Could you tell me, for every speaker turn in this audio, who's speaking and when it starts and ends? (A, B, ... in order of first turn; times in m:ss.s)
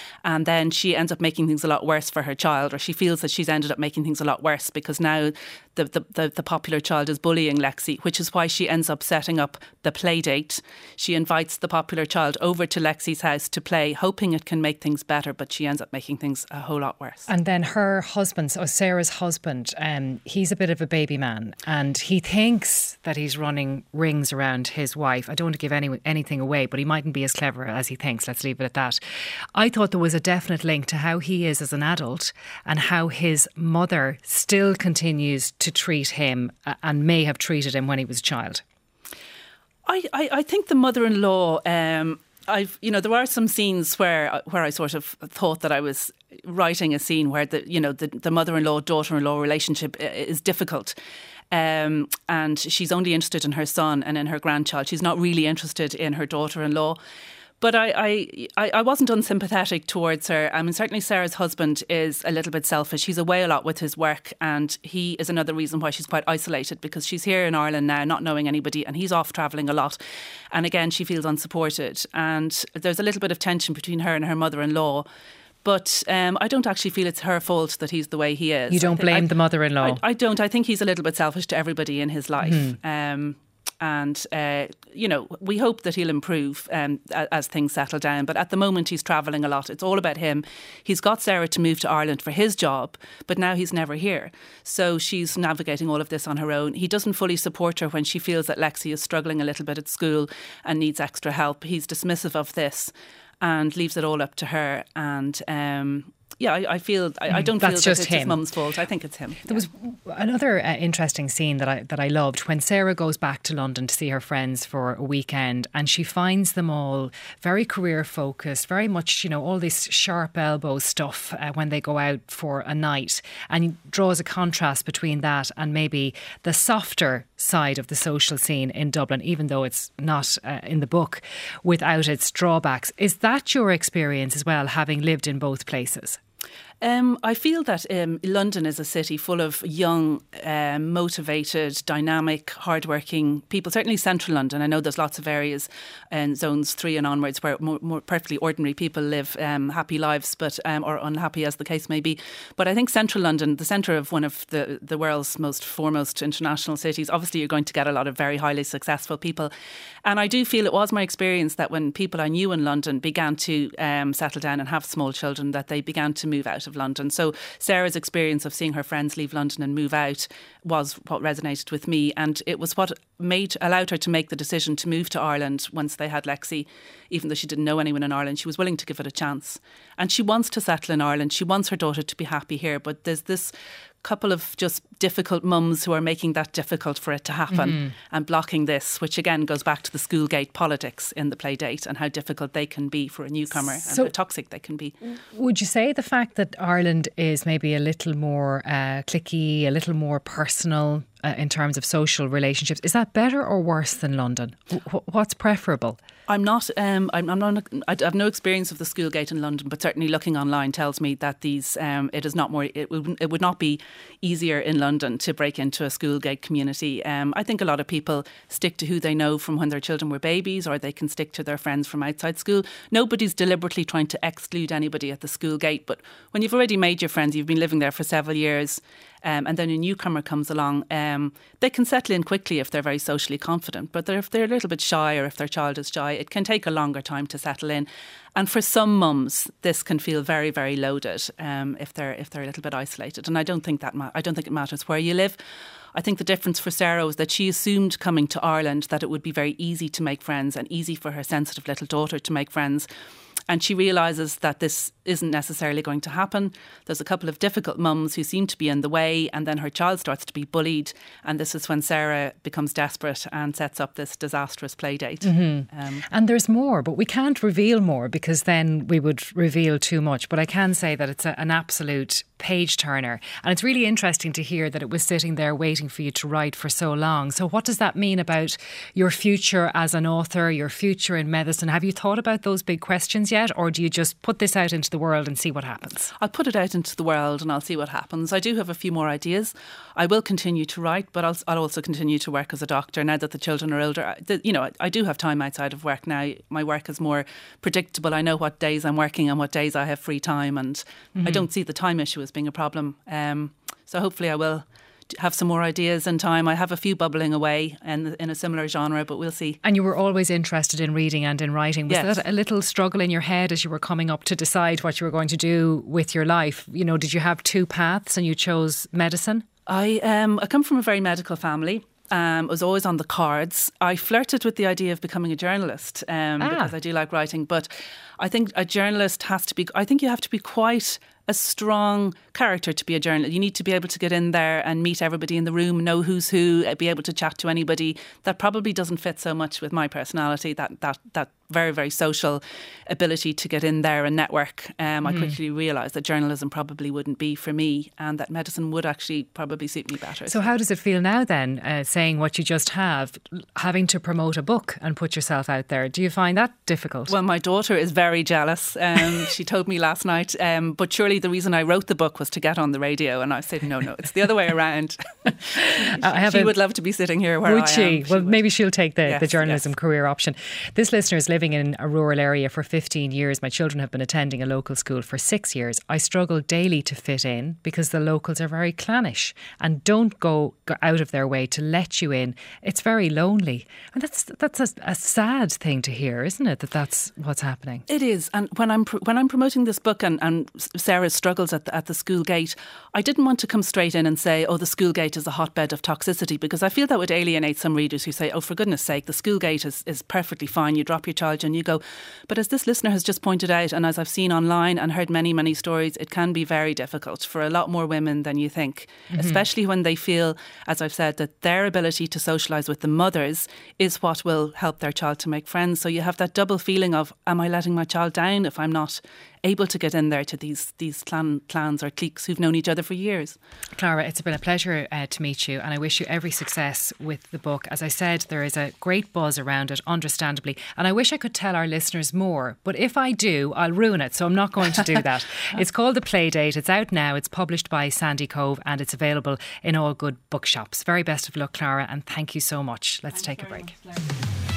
0:00.2-0:17.3 A
0:17.3-0:29.0 B
0:29.5-0:38.6 B
0:39.8-0:51.0 A
0:51.5-0:57.0 A
0:57.6-1:10.0 A
1:10.5-1:15.0 A
1:15.6-1:19.3 A
1:18.7-1:20.0 B
1:19.8-1:49.7 A
1:22.4-1:22.8 B
1:47.3-1:48.4 B
1:49.5-2:16.2 B
2:16.8-2:39.5 A
2:40.0-3:14.9 A
3:07.5-3:07.9 B
3:13.8-3:14.1 B
3:15.0-3:26.0 B
3:26.3-4:05.4 A
4:05.9-4:12.9 A
4:13.5-4:26.1 A
4:25.2-4:46.1 B
4:46.2-5:09.6 A
5:09.6-5:19.4 B
5:11.9-5:12.2 A
5:19.7-5:50.5 A
5:26.4-5:26.7 B
5:45.0-5:45.3 B
5:50.2-5:57.1 B
5:57.1-6:08.4 A
6:05.5-6:06.5 B
6:07.4-6:27.8 B
6:09.0-6:09.7 A
6:27.9-7:03.4 A
6:49.1-6:49.4 B
7:03.8-7:23.7 B